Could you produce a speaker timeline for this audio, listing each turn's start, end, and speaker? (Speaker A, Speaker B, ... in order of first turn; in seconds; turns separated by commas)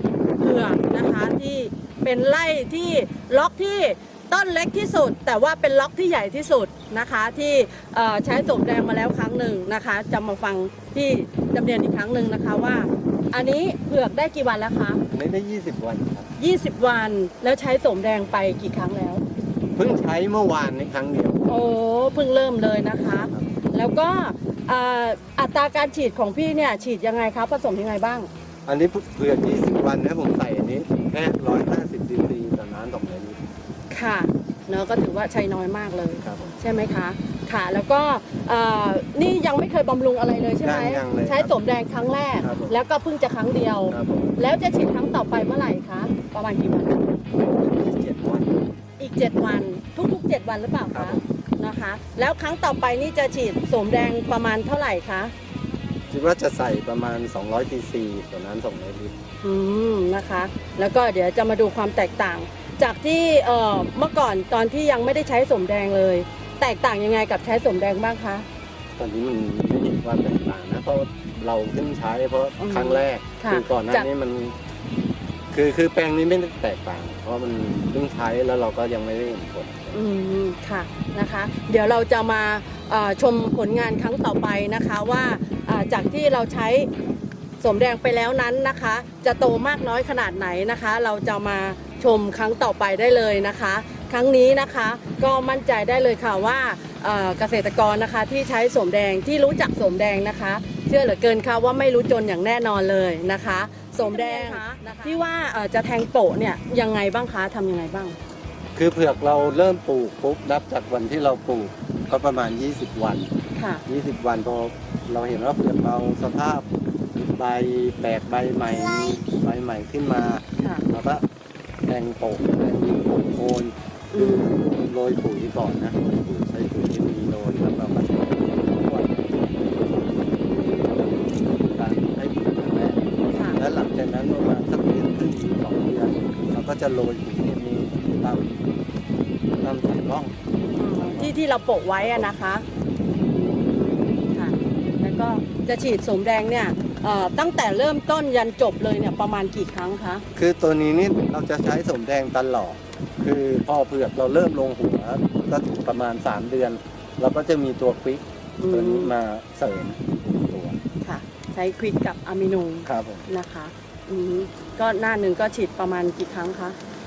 Speaker A: 0.4-15.0, Speaker B: 15.1-16.3, Speaker A: 16.4-19.2, Speaker B: 19.8-21.5, Speaker A: 21.5-28.3, Speaker B: 23.1-23.4, Speaker B: 28.7-33.4, Speaker A: 33.9-47.0, Speaker B: 36.2-36.5, Speaker B: 40.6-41.5, Speaker B: 42.4-42.8, Speaker B: 43.9-44.4, Speaker B: 47.3-48.5, Speaker A: 49.0-55.3, Speaker B: 50.9-51.2, Speaker B: 56.1-59.1, Speaker A: 59.4-68.5, Speaker B: 69.0-74.6, Speaker A: 72.6-74.1, Speaker B: 75.5-80.0, Speaker A: 79.9-86.9, Speaker A: 87.6-108.2, Speaker B: 108.8-113.3, Speaker A: 113.5-113.8, Speaker B: 113.9-121.2, Speaker A: 120.6-120.9, Speaker B: 121.9-133.0, Speaker A: 124.1-124.6, Speaker A: 133.3-133.6, Speaker B: 133.6-138.8, Speaker B: 139.6-140.3, Speaker A: 140.8-142.7, Speaker B: 140.9-141.3, Speaker B: 142.0-142.3, Speaker A: 143.3-150.2, Speaker B: 150.3-160.8, Speaker A: 158.6-159.1, Speaker A: 161.0-166.8, Speaker B: 162.8-163.3